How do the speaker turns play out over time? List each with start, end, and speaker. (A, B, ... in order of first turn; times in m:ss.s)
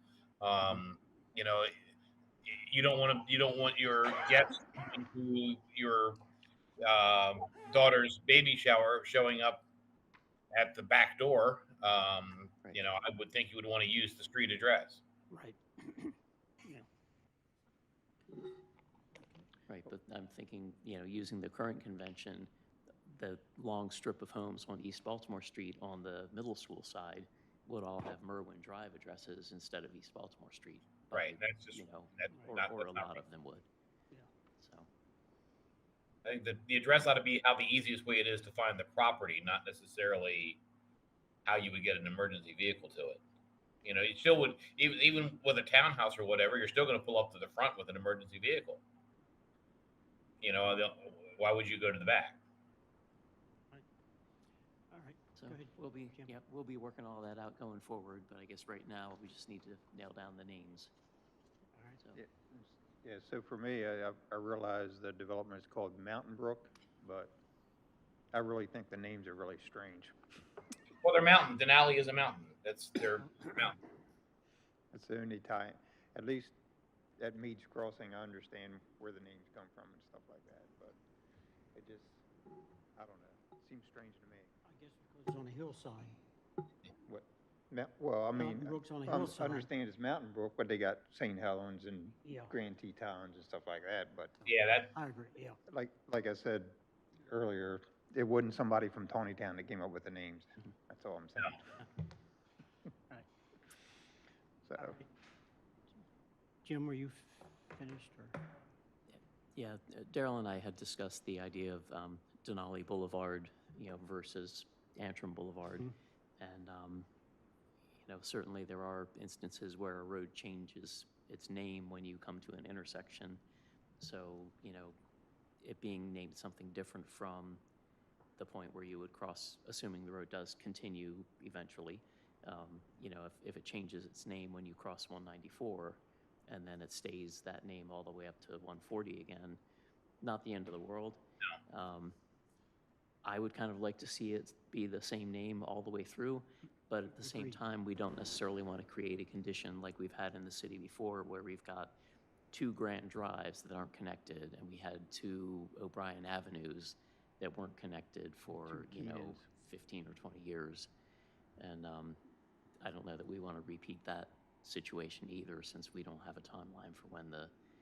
0:00.4-0:01.7 A
0:02.5-0:06.2 A
0:06.8-0:09.6 A
0:10.5-0:15.0 A
0:15.3-0:16.8 B
0:19.7-0:22.5 C
0:23.1-0:33.7 C
0:31.1-0:33.2 A
0:34.6-0:34.9 C
0:36.2-0:40.6 A
0:41.4-0:43.2 A
0:43.8-0:48.8 A
0:50.4-0:52.4 A
0:54.9-0:56.3 B
0:55.4-1:00.9 C
1:02.1-1:07.4 D
1:08.3-1:10.1 D
1:11.0-1:13.8 A
1:14.9-1:16.5 D
1:17.2-1:21.0 D
1:21.7-1:22.2 D
1:23.0-1:24.5 D
1:24.6-1:26.2 B
1:27.0-1:34.4 D
1:28.3-1:29.7 B
1:32.2-1:32.5 B
1:34.4-1:35.6 B
1:34.5-1:34.9 A
1:35.7-1:41.6 D
1:44.6-1:45.0 D
1:44.8-1:45.0 B
1:46.6-1:48.4 B
1:49.1-1:57.1 C
1:58.0-2:03.4 C
2:04.0-2:05.0 C
2:05.6-2:07.6 C
2:08.4-2:19.6 C
2:20.2-2:22.2 C
2:23.2-2:31.9 C
2:27.2-2:27.6 B
2:32.5-2:40.9 C
2:38.5-2:39.4 D
2:41.6-2:42.2 C
2:42.8-2:47.5 C